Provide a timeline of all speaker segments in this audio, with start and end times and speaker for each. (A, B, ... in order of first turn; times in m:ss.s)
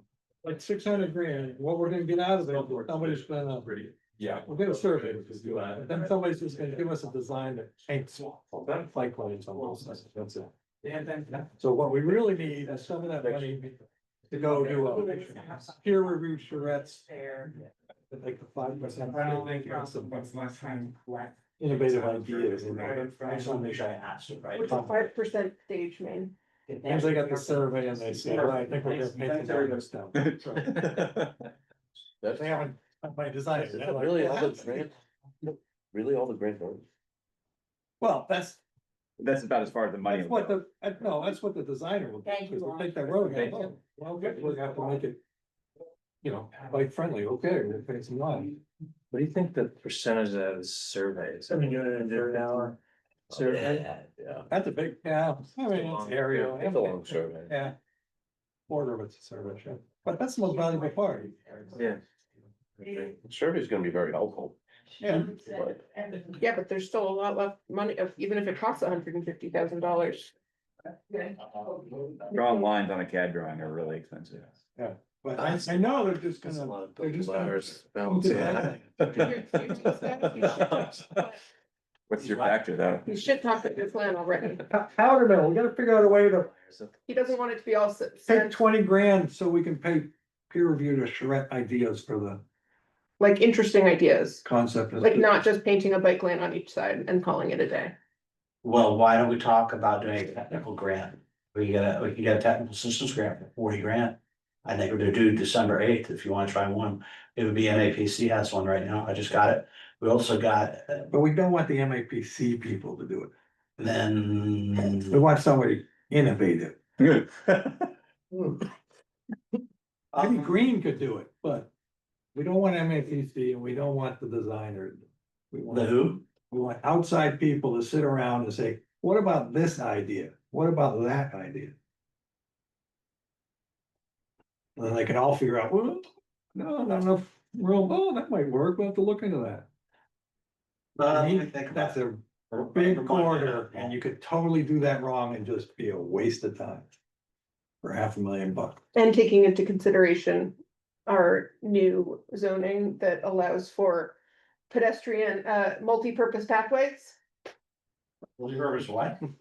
0:00.4-0:10.5 A
0:10.9-0:11.3 B
0:11.5-0:13.8 A
0:14.3-0:17.1 A
0:14.4-0:15.4 B
0:18.1-0:20.5 A
0:19.1-0:21.3 B
0:21.6-0:23.1 A
0:21.9-0:23.5 B
0:22.9-0:24.8 C
0:24.6-0:26.3 D
0:26.7-0:29.8 B
0:26.8-0:31.0 A
0:30.2-0:31.3 E
0:32.2-0:32.6 F
0:32.3-0:34.9 A
0:33.6-0:35.0 F
0:35.9-0:36.8 F
0:38.0-0:38.6 A
0:39.2-0:40.6 E
0:40.1-0:45.2 A
0:42.9-0:43.6 B
0:46.2-0:48.6 A
0:49.1-0:52.7 G
0:51.5-0:52.8 A
0:53.3-0:53.9 G
0:54.2-0:54.5 F
0:54.5-0:57.8 A
0:55.7-0:56.3 G
0:56.2-0:57.6 F
0:58.7-1:01.6 A
1:01.7-1:02.0 G
1:02.8-1:04.6 F
1:05.0-1:05.3 A
1:05.4-1:05.8 F
1:06.2-1:10.3 D
1:12.2-1:14.5 E
1:12.4-1:12.7 D
1:14.8-1:19.3 A
1:16.7-1:19.3 F
1:19.1-1:21.4 D
1:20.1-1:21.0 E
1:22.1-1:23.2 E
1:23.0-1:24.6 D
1:24.6-1:26.5 A
1:27.1-1:28.6 D
1:28.3-1:32.4 A
1:33.2-1:34.4 D
1:34.4-1:35.4 A
1:35.0-1:38.0 D
1:38.6-1:51.1 C
1:51.1-1:53.3 A
1:53.8-1:55.2 C
1:55.1-1:56.8 A
1:57.0-1:57.9 E
2:00.1-2:01.7 A
2:02.4-2:11.8 A
2:05.7-2:06.2 C
2:14.8-2:19.7 A
2:21.0-2:22.0 C
2:21.1-2:26.9 A
2:22.5-2:24.0 C
2:27.8-2:28.8 A
2:28.9-2:34.2 D
2:34.7-2:37.2 D
2:38.4-2:39.2 C